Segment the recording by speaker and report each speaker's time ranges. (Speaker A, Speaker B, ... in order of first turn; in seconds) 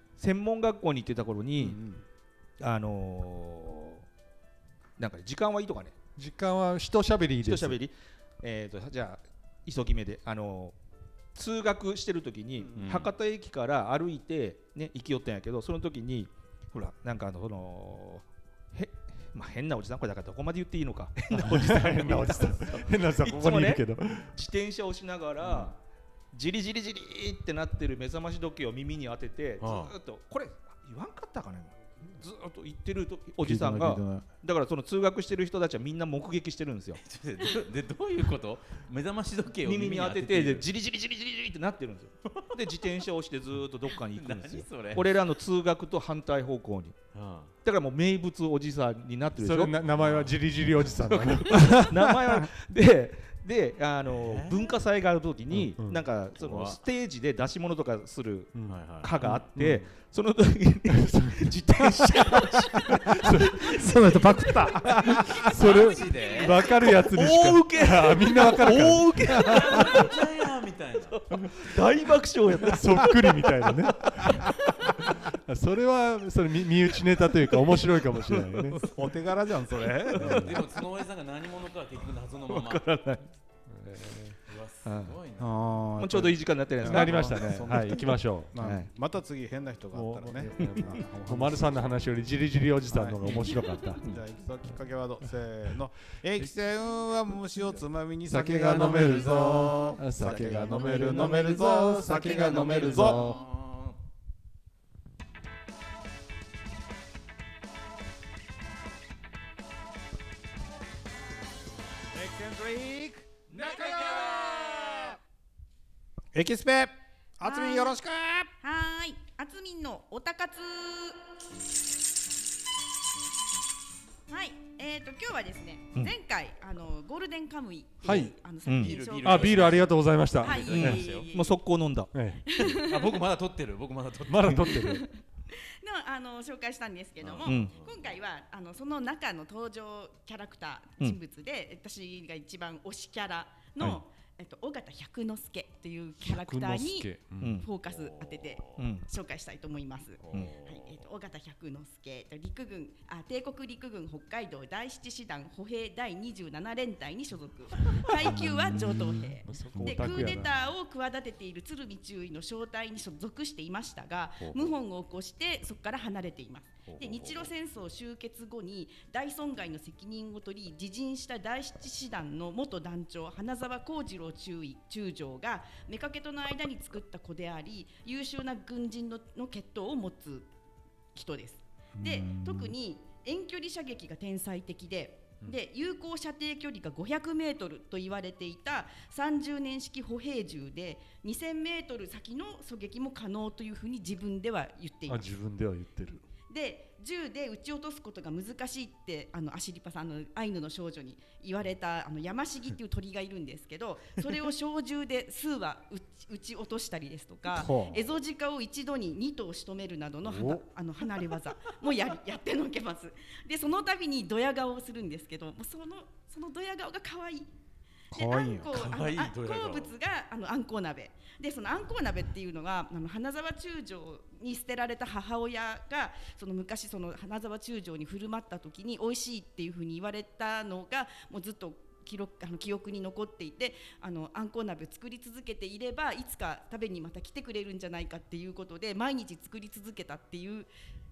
Speaker A: 0.2-1.8, 2.6-4.0, 5.0-6.0, 7.4-10.8, 11.3-25.7, 26.3-37.0, 39.6-47.0, 47.6-49.8, 51.5-65.4, 66.8-70.1, 71.3-74.5, 78.2-78.8, 80.0-80.6, 82.5-83.3, 84.8-85.2, 86.0-88.9, 90.6-91.0, 100.2-101.7, 128.7-128.9, 130.8-132.1, 137.4-137.7, 147.4-147.7, 148.8-149.1
Speaker B: 1.6-2.0, 12.6-12.9, 33.4-34.3, 63.2-65.5, 69.5-69.8, 78.8-80.5, 85.4-92.0, 92.9-103.4, 112.1-115.0, 116.3-118.5, 158.4-159.1, 159.7-160.5, 182.0-182.7, 207.5-208.1, 218.1-218.8
Speaker C: 6.2-7.8, 21.3-24.4, 49.4-52.0, 55.5-56.0, 58.5-59.9, 60.9-62.4, 62.9-64.2, 65.3-69.4, 72.7-78.8, 80.2-80.6, 83.7-84.4, 86.8-88.5, 89.9-94.1, 98.3-103.4, 128.0-128.3, 129.2-131.0, 132.1-132.7, 134.3-135.1, 146.2-147.6, 159.4-160.5, 195.1-196.2, 210.3-210.6
Speaker D: 12.8-13.1, 29.6-29.9, 37.0-40.7, 42.3-42.9, 44.0-45.2, 47.1-47.5, 49.9-50.4, 50.9-51.4, 54.2-54.7, 56.4-56.8, 58.7-59.2, 65.3-66.7, 69.3-71.2, 80.2-82.9, 84.5-85.6, 102.3-104.0, 128.7-131.3, 132.6-134.9, 137.2-138.2, 147.9-148.8, 150.2-151.0, 166.9-167.5, 218.7-219.9
Speaker E: 65.7-66.5, 117.4-118.0, 118.6-121.2, 124.3-131.6, 132.5-133.2, 134.7-180.5, 181.1-195.3, 196.4-217.5, 218.1-240.7